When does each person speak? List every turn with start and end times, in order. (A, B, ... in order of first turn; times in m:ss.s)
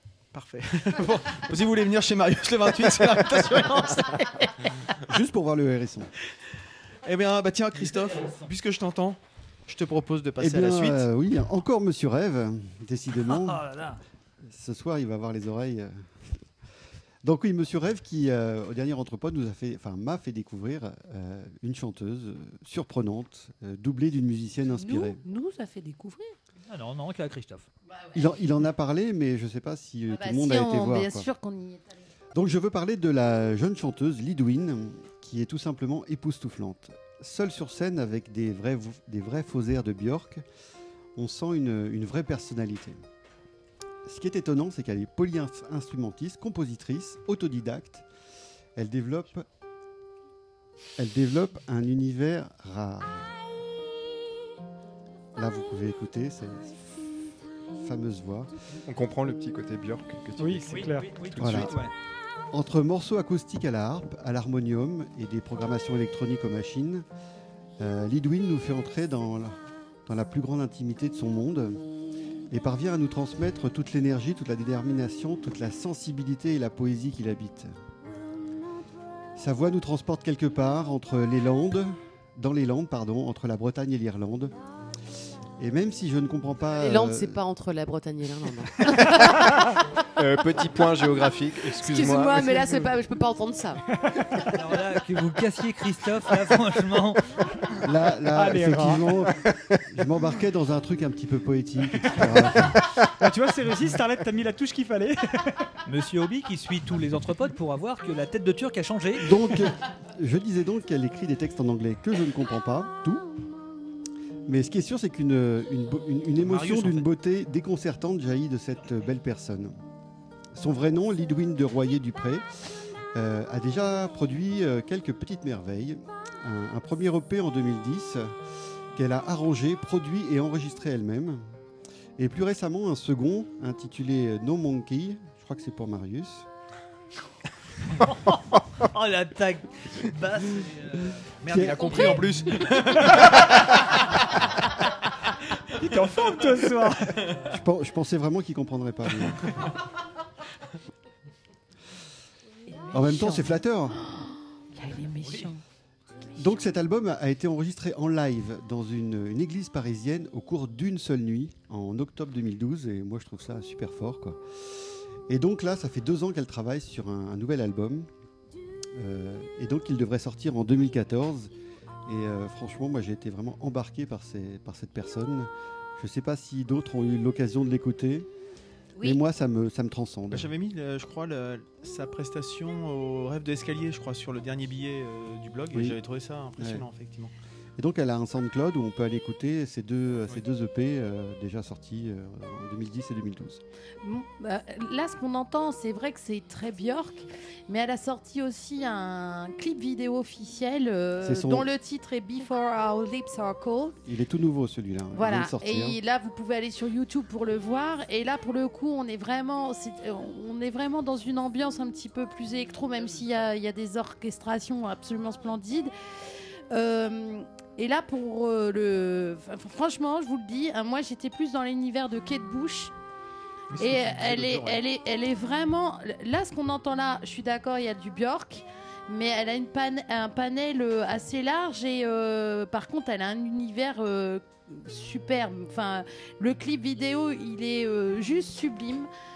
0:00.3-0:04.2 A
0:05.1-0:06.1 B
0:07.0-0:11.1 A
0:07.8-0:08.5 C
0:10.4-0:13.6 B
0:13.2-0:14.0 C
0:14.5-0:15.9 B
0:17.2-0:25.2 B
0:24.7-0:26.4 D
0:26.7-0:27.7 C
0:27.9-0:28.3 D
0:28.1-0:31.3 B
0:30.1-0:32.0 D
0:32.3-0:40.4 B
0:41.2-0:43.0 B
0:44.0-0:48.0 B
0:48.8-0:49.5 B
0:51.0-0:53.4 B
0:55.4-0:56.8 B
0:57.7-0:58.5 B
0:58.8-1:01.8 E
1:00.4-1:01.1 F
1:00.7-1:01.9 C
1:01.4-1:01.7 B
1:02.5-1:07.0 B
1:07.8-1:11.8 B
1:12.5-1:17.7 B
1:19.4-1:24.5 B
1:25.6-1:27.4 B
1:26.8-1:29.8 G
1:30.2-1:32.7 E
1:31.7-1:33.8 G
1:34.0-1:34.4 F
1:34.5-1:37.4 C
1:37.8-1:42.9 B
1:38.3-1:39.2 F
1:43.2-1:45.7 F
1:45.9-1:49.4 C
1:49.2-1:53.3 B
1:54.5-1:59.7 B
1:56.4-1:57.1 C
2:00.5-2:02.4 B
2:03.1-2:08.3 B
2:08.9-2:11.4 B
2:12.2-2:16.5 B
2:18.0-2:22.2 C
2:21.4-2:24.2 A
2:21.5-2:22.2 B
2:21.8-2:22.3 D
2:23.0-2:23.7 C
2:25.7-2:27.3 F
2:27.5-2:29.7 B
2:32.7-2:35.6 D
2:32.9-2:34.0 B
2:35.2-2:35.5 C
2:36.3-2:44.4 B
2:45.3-2:48.1 B
2:49.0-2:51.5 B
2:52.0-2:58.3 B
2:59.0-3:00.5 B
3:00.3-3:07.3 A
3:05.7-3:06.0 B
3:06.6-3:06.8 B
3:07.8-3:13.6 B
3:14.0-3:24.0 D
3:21.2-3:21.7 B
3:24.0-3:26.0 B
3:25.1-3:35.9 D
3:36.7-3:42.9 D
3:43.7-3:44.8 A
3:43.8-3:59.1 D